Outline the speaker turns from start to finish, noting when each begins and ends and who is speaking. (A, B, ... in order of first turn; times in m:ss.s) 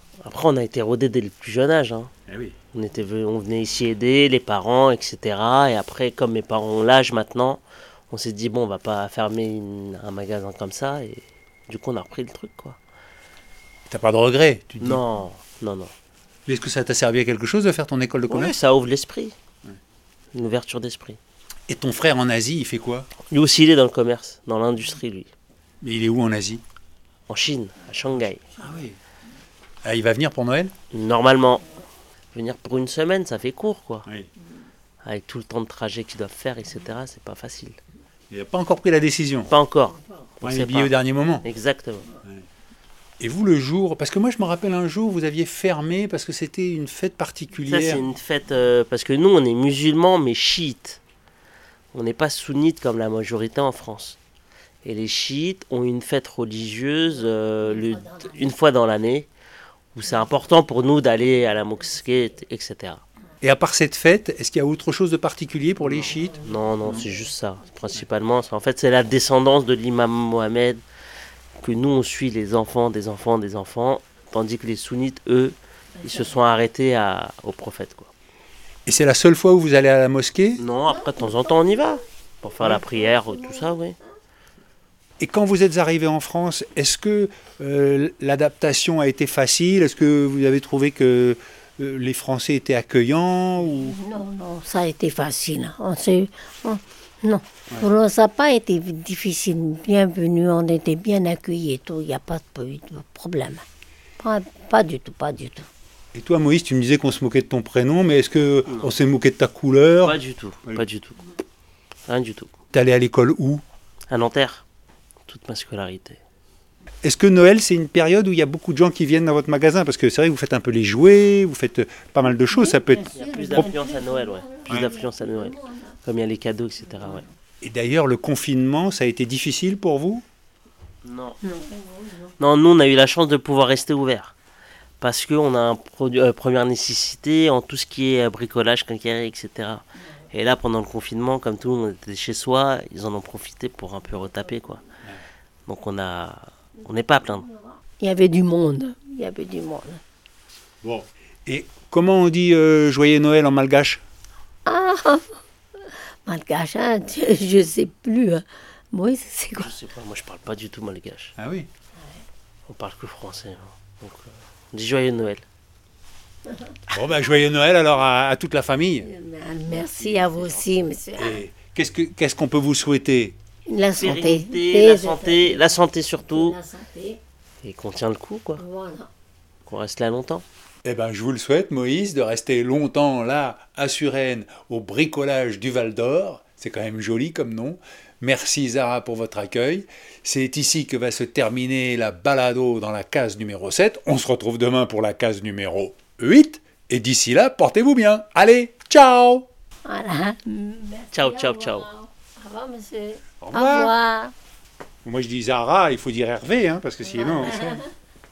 0:00.2-0:02.1 A
0:02.3-0:02.6 B
0:02.7-0:12.8 A
0:13.9-0:15.0 B
0:14.8-0:15.9 A
0:16.5-0:18.6 B
0:18.3-0:19.4 A
0:20.3-0:21.2 A
0:21.7-0:23.1 B
0:23.3-0:25.3 A
0:25.8-0:26.6 B
0:27.3-0:28.5 A
0:28.6-0:29.0 B
0:29.8-0:30.7 B
0:30.9-0:31.7 A
0:32.3-0:34.1 A
0:35.0-0:37.8 A
0:38.3-0:39.5 B
0:39.5-0:42.1 A
0:40.4-0:41.4 B
0:43.2-0:48.1 B
0:47.7-0:51.0 A
0:51.9-0:54.2 A
0:54.8-0:59.3 A
0:59.9-1:03.0 A
1:03.4-1:07.0 B
1:05.8-1:10.8 A
1:06.6-1:07.2 C
1:11.6-1:18.1 A
1:16.0-1:16.3 C
1:18.9-1:20.6 B
1:20.6-1:24.0 A
1:22.7-1:23.4 C
1:25.2-1:34.0 B
1:33.8-1:43.6 C
1:44.2-1:45.7 C
1:46.1-1:50.8 B
1:48.7-1:48.9 A
1:50.0-1:51.2 A
1:52.1-1:52.5 A
1:52.7-1:53.6 B
1:54.1-1:54.6 A
1:55.3-1:56.2 A
1:57.0-2:03.6 B
2:02.5-2:05.9 C
2:03.0-2:07.3 A
2:04.7-2:04.9 B
2:07.6-2:10.2 B
2:11.0-2:11.4 A
2:11.4-2:12.3 C
2:12.4-2:14.3 A
2:15.0-2:24.8 A
2:25.7-2:27.5 A
2:28.0-2:30.0 C
2:30.8-2:34.0 B
2:34.7-2:35.4 C
2:36.2-2:39.7 C
2:39.6-2:41.3 A
2:41.4-2:41.7 B
2:42.7-2:45.4 A
2:46.9-2:49.1 B
2:49.0-2:51.4 C
2:49.7-2:50.9 A
2:51.2-2:53.4 B
2:53.7-2:57.2 C
2:53.9-2:56.6 A
2:57.6-2:58.6 A
2:58.6-2:59.1 C
2:59.7-3:00.4 A
3:00.8-3:19.5 B
3:19.9-3:24.3 C
3:21.1-3:21.9 A
3:23.4-3:24.0 B
3:25.0-3:27.8 B
3:27.1-3:27.9 C